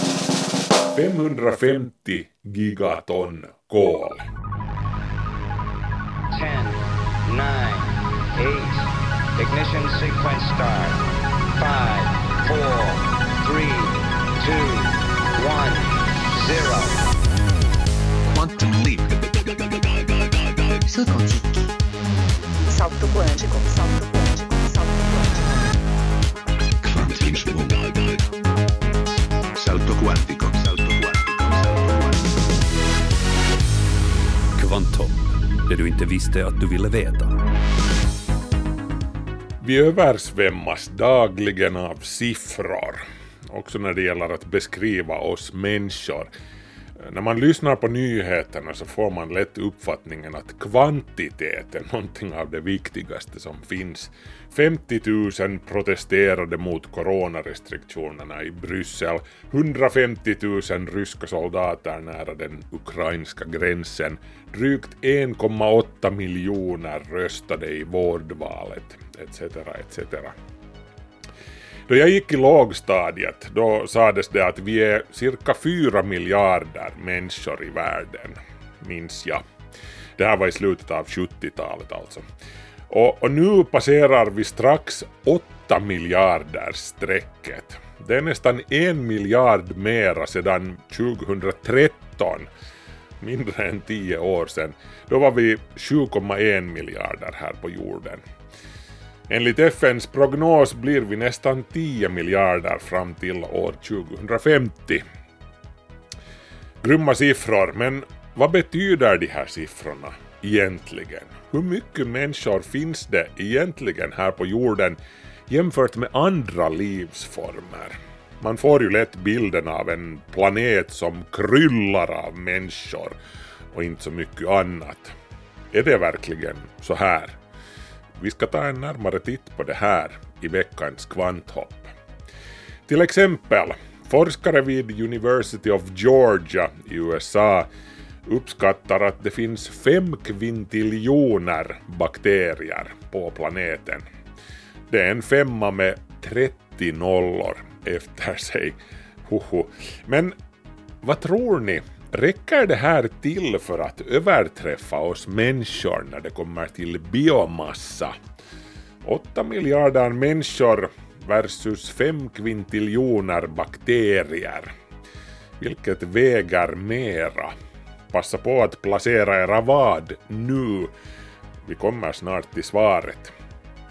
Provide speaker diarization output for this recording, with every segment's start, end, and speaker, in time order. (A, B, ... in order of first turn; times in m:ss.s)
0:00.9-0:04.2 A
0:06.3-0:11.0 B
0:11.6-0:17.0 B
0:18.2-0:21.7 C
0:22.7-0:25.5 D
0:26.8-0:28.3 C
0:29.6-0:32.3 C
0:34.6-0:37.4 E
0:39.6-0:46.3 A
0:47.0-1:10.4 A
1:11.9-1:19.4 A
1:20.2-1:22.2 A
1:22.9-1:32.5 A
1:33.2-1:38.2 A
1:39.3-1:45.0 A
1:46.8-1:55.0 A
1:55.5-2:03.2 A
2:03.7-2:05.1 A
2:05.7-2:07.4 A
2:08.2-2:11.9 A
2:12.9-2:17.7 A
2:18.3-2:24.0 A
2:24.9-2:30.4 A
2:31.0-2:38.2 A
2:39.0-2:44.7 A
2:45.6-2:47.6 A
2:48.1-2:50.9 A
2:51.6-2:53.3 A